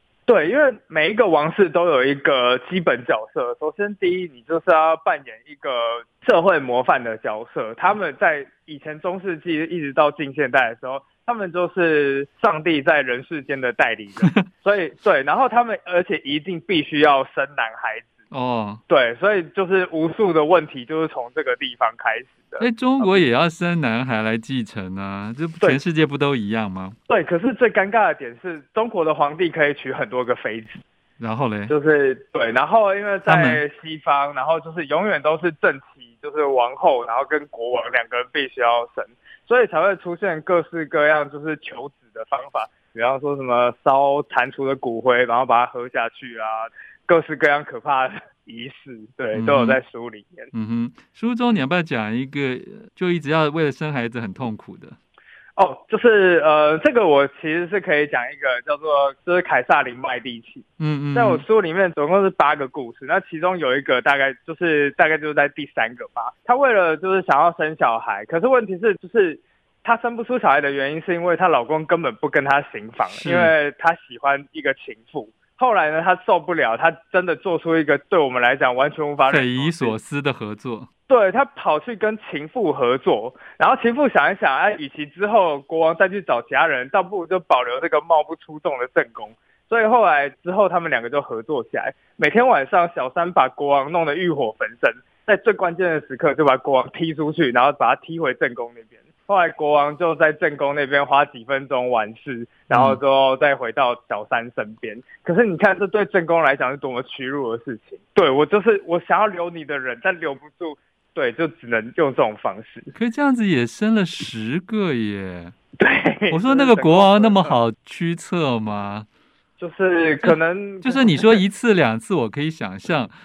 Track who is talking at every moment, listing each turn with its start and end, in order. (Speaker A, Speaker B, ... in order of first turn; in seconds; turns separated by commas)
Speaker A: 0.2-18.1, Speaker B: 18.3-18.8, Speaker A: 18.9-23.2, Speaker B: 22.6-26.9, Speaker A: 27.1-30.8, Speaker B: 31.2-31.7, Speaker A: 31.7-50.5, Speaker B: 33.2-33.6, Speaker B: 49.3-49.8, Speaker B: 50.5-55.0, Speaker A: 55.5-80.0, Speaker B: 60.8-61.4, Speaker B: 73.0-73.5, Speaker B: 79.3-80.9, Speaker A: 81.1-112.9, Speaker B: 102.7-103.0, Speaker B: 112.9-115.5, Speaker A: 115.8-117.6, Speaker B: 116.3-119.1, Speaker A: 119.6-121.4, Speaker B: 120.2-123.1